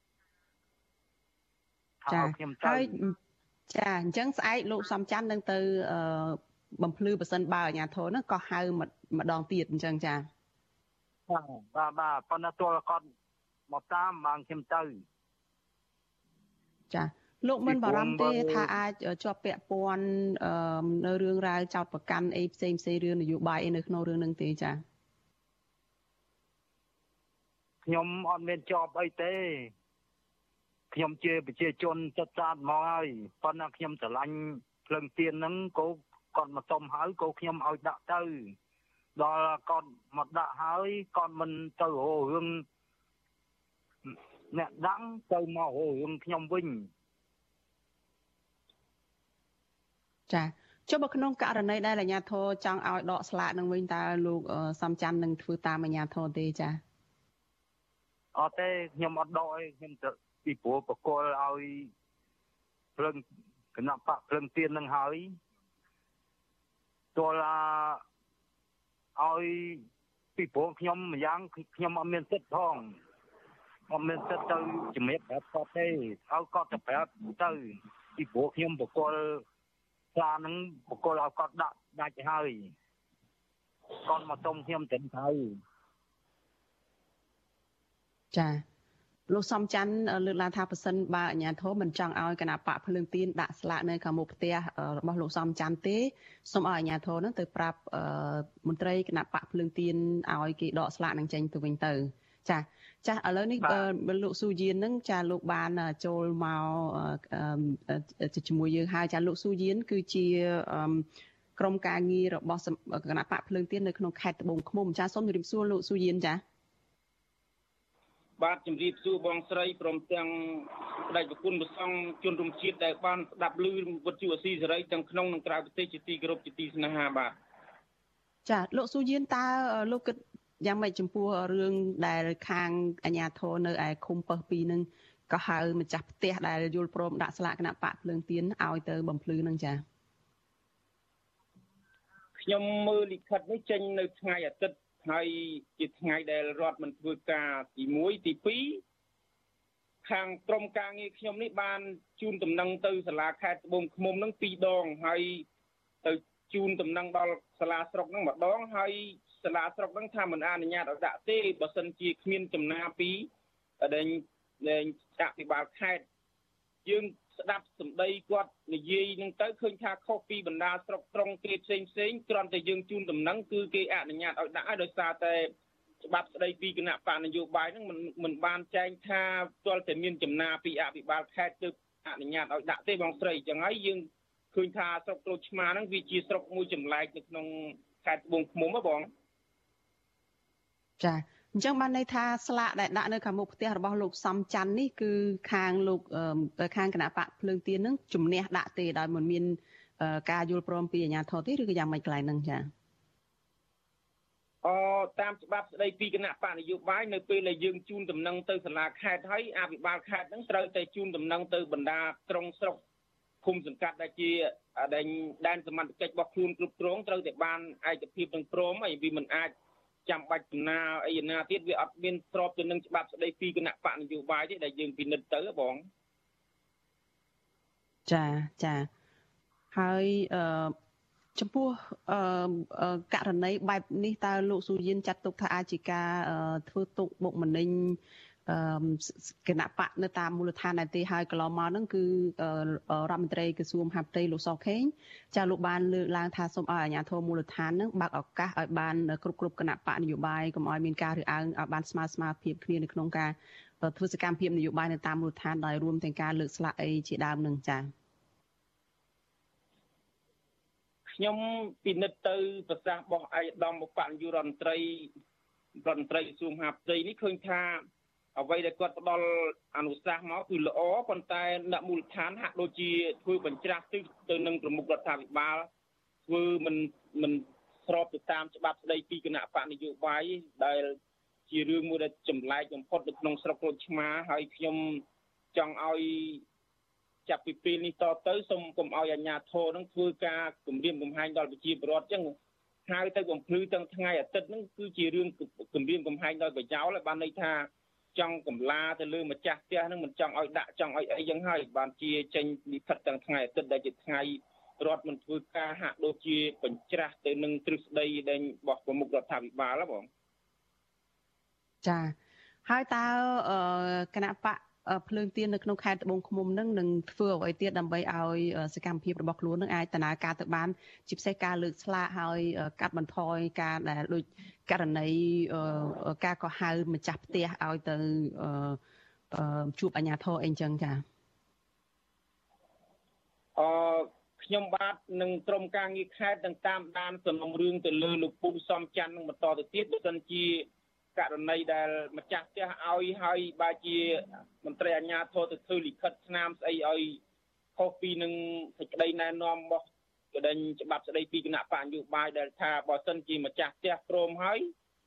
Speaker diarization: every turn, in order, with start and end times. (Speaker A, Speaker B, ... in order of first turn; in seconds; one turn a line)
Speaker A: 2.0-2.9
Speaker B: 2.1-3.1
Speaker B: 3.7-10.3
Speaker A: 11.3-13.1
Speaker A: 13.7-15.0
Speaker B: 16.9-24.8
Speaker A: 17.7-18.7
Speaker A: 27.9-29.7
Speaker A: 30.9-38.5
Speaker A: 39.2-42.6
Speaker A: 44.1-46.9
Speaker B: 50.3-56.8
Speaker A: 58.4-61.9
Speaker A: 63.0-63.2
Speaker A: 63.8-65.3
Speaker A: 67.2-68.0
Speaker A: 69.2-69.8
Speaker A: 70.4-73.0
Speaker A: 73.9-79.4
Speaker A: 80.2-82.7
Speaker A: 84.0-85.6
Speaker B: 88.3-88.6
Speaker B: 89.3-111.1
Speaker A: 103.6-103.9
Speaker B: 111.6-116.4
Speaker C: 118.4-127.3
Speaker B: 128.5-139.8
Speaker C: 142.4-148.8
Speaker C: 150.1-155.4
Speaker C: 156.0-163.3
Speaker C: 163.8-166.0
Speaker C: 166.8-175.5
Speaker C: 176.1-189.1
Speaker B: 191.0-202.7
Speaker C: 204.6-212.8
Speaker C: 213.4-219.5
Speaker C: 220.1-225.9
Speaker B: 228.1-228.9
Speaker B: 229.7-230.8
Speaker B: 231.4-257.9
Speaker C: 261.1-265.1
Speaker C: 265.8-267.8
Speaker C: 268.4-275.7
Speaker C: 276.3-281.0
Speaker C: 281.5-286.4
Speaker C: 287.3-292.4
Speaker C: 292.9-310.1
Speaker B: 311.8-312.1
Speaker B: 312.7-328.8
Speaker B: 329.3-331.0
Speaker C: 333.6-347.2
Speaker C: 347.8-354.7